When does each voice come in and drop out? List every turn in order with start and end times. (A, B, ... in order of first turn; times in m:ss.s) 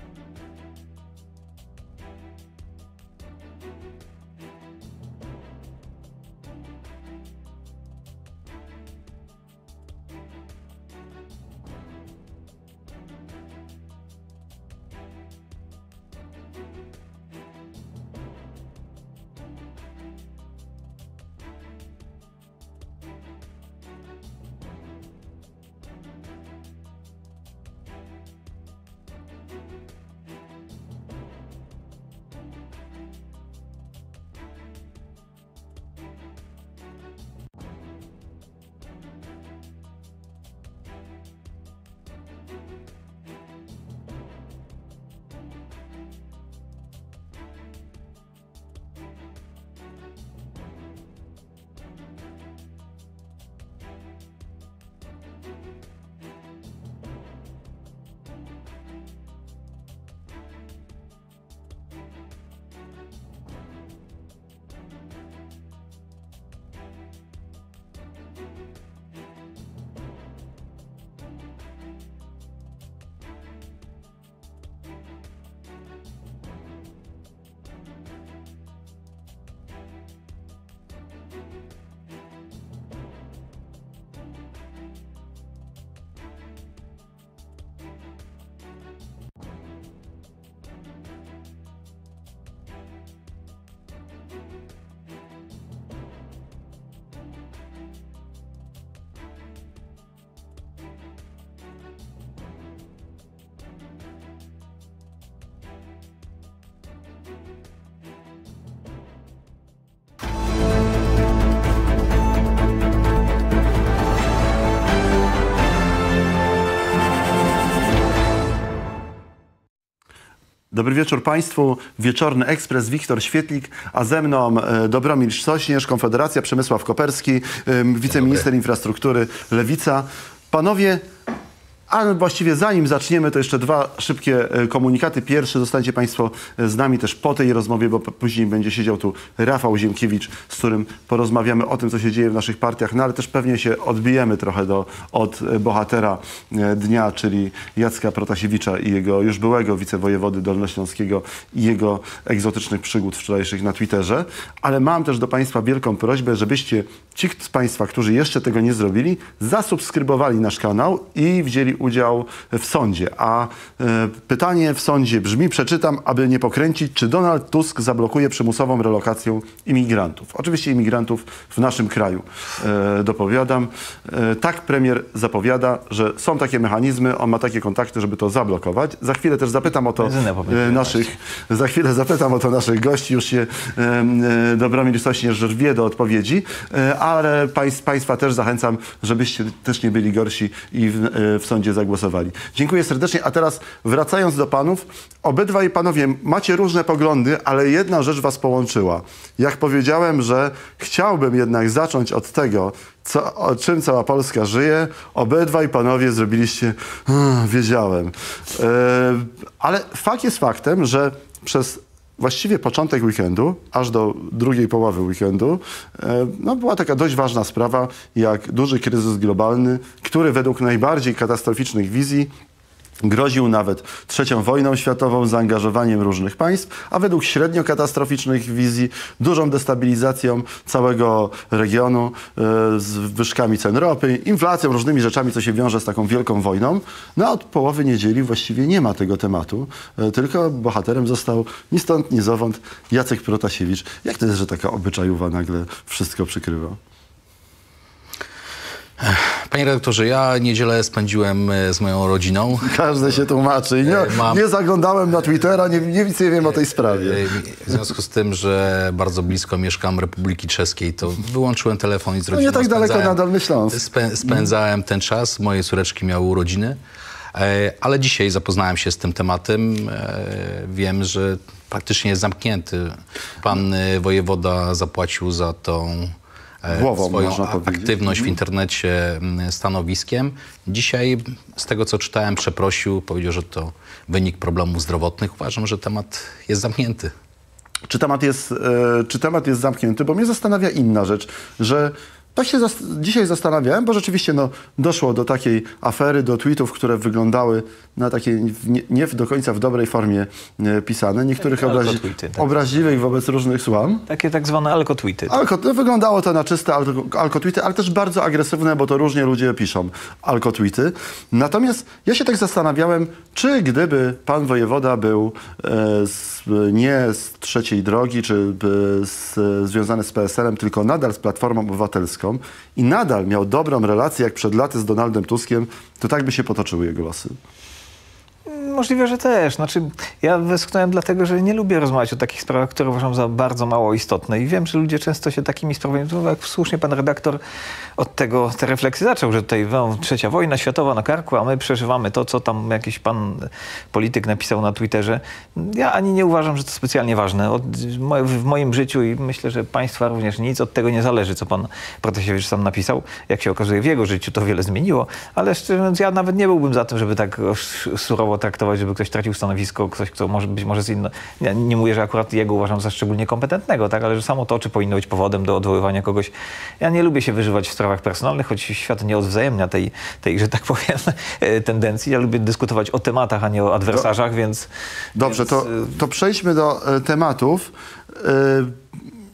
2:00.7-2:11.0 A
2:11.9-3:42.3 A
3:00.0-3:01.1 B
3:43.0-4:06.8 A
4:09.0-4:12.8 C
4:12.6-4:17.2 A
4:13.8-4:14.4 C
4:16.9-4:23.2 C
4:22.3-4:23.8 A
4:23.7-4:26.8 C
4:27.3-4:47.1 C
4:36.7-4:38.4 A
4:47.9-5:04.0 A
5:01.4-5:02.6 B
5:04.1-5:05.4 B
5:05.3-5:27.4 A
5:28.5-5:37.4 B
5:38.0-6:14.7 B
6:15.2-6:18.8 A
6:15.2-6:15.9 B